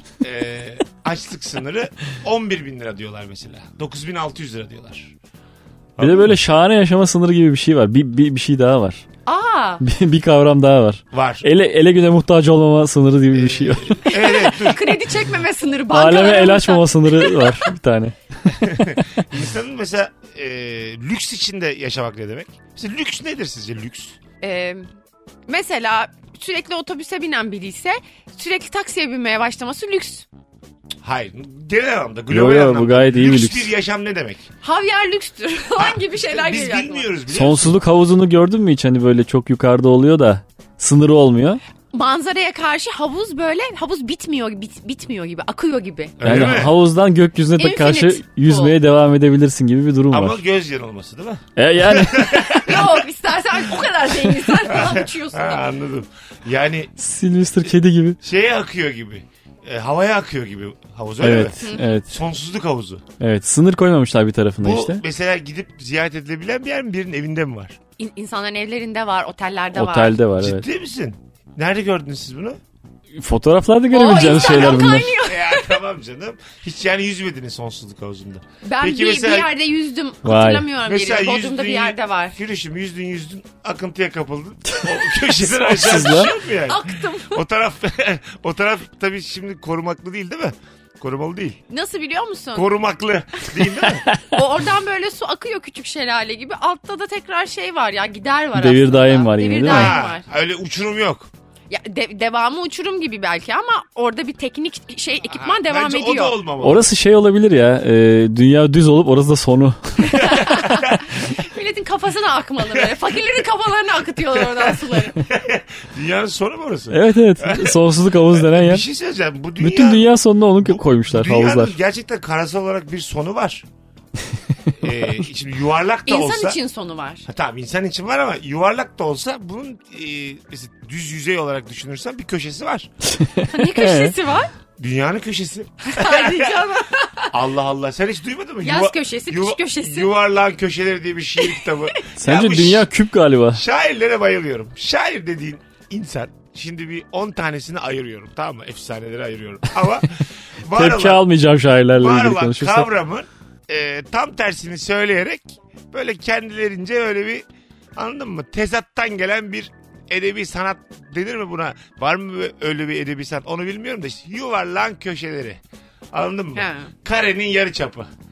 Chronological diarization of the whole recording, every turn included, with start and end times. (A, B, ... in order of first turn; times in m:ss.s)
0:00.2-0:05.1 A
0:06.0-0:06.4 A
0:06.0-0:09.0 B
0:09.3-0:09.8 C
0:09.8-0:14.1 B
0:11.1-0:11.5 A
0:13.3-0:15.0 A
0:14.1-0:17.7 C
0:15.9-0:18.2 B
0:18.6-0:24.2 A
0:24.4-0:24.9 C
0:25.5-0:30.3 C
0:31.0-0:34.5 A
0:32.3-0:33.7 B
0:34.6-0:37.1 C
0:35.8-0:37.8 A
0:37.3-0:41.6 B
0:41.9-0:46.2 C
0:46.2-0:46.8 A
0:46.2-0:50.4 B
0:47.6-0:48.8 C
0:50.1-0:53.0 A
0:51.6-0:52.6 B
0:52.6-0:55.7 C
0:54.7-0:57.0 A
0:57.0-0:58.2 B
0:58.2-1:03.0 A
1:01.2-1:02.1 B
1:03.2-1:05.0 B
1:04.6-1:07.8 A
1:08.0-1:10.2 C
1:09.8-1:10.7 B
1:10.4-1:12.6 A
1:13.2-1:15.2 B
1:13.9-1:15.8 C
1:14.2-1:19.5 A
1:18.6-1:22.4 C
1:20.2-1:20.7 B
1:20.8-1:31.6 A
1:25.5-1:26.3 B
1:26.7-1:27.4 C
1:31.7-1:32.7 C
1:32.6-1:34.1 A
1:34.3-1:40.2 C
1:38.6-1:40.0 B
1:39.6-1:41.3 A
1:41.7-1:46.4 C
1:45.3-1:46.9 A
1:46.6-1:50.7 B
1:50.0-1:55.2 C
1:50.3-1:51.0 A
1:54.4-1:57.8 A
1:56.9-1:58.8 B
1:58.3-2:00.1 A
1:59.6-2:01.7 B
2:00.6-2:03.7 A
2:04.8-2:06.6 A
2:06.1-2:07.3 C
2:07.3-2:12.9 A
2:13.1-2:14.1 B
2:13.5-2:14.5 C
2:14.8-2:16.8 A
2:15.8-2:17.3 C
2:17.3-2:22.9 A
2:18.6-2:20.1 C
2:21.4-2:21.8 C
2:22.2-2:23.6 B
2:23.5-2:31.2 A
2:30.7-2:32.9 B
2:32.0-2:37.4 A
2:38.0-2:45.6 A
2:46.1-2:48.1 A
2:46.6-2:46.9 C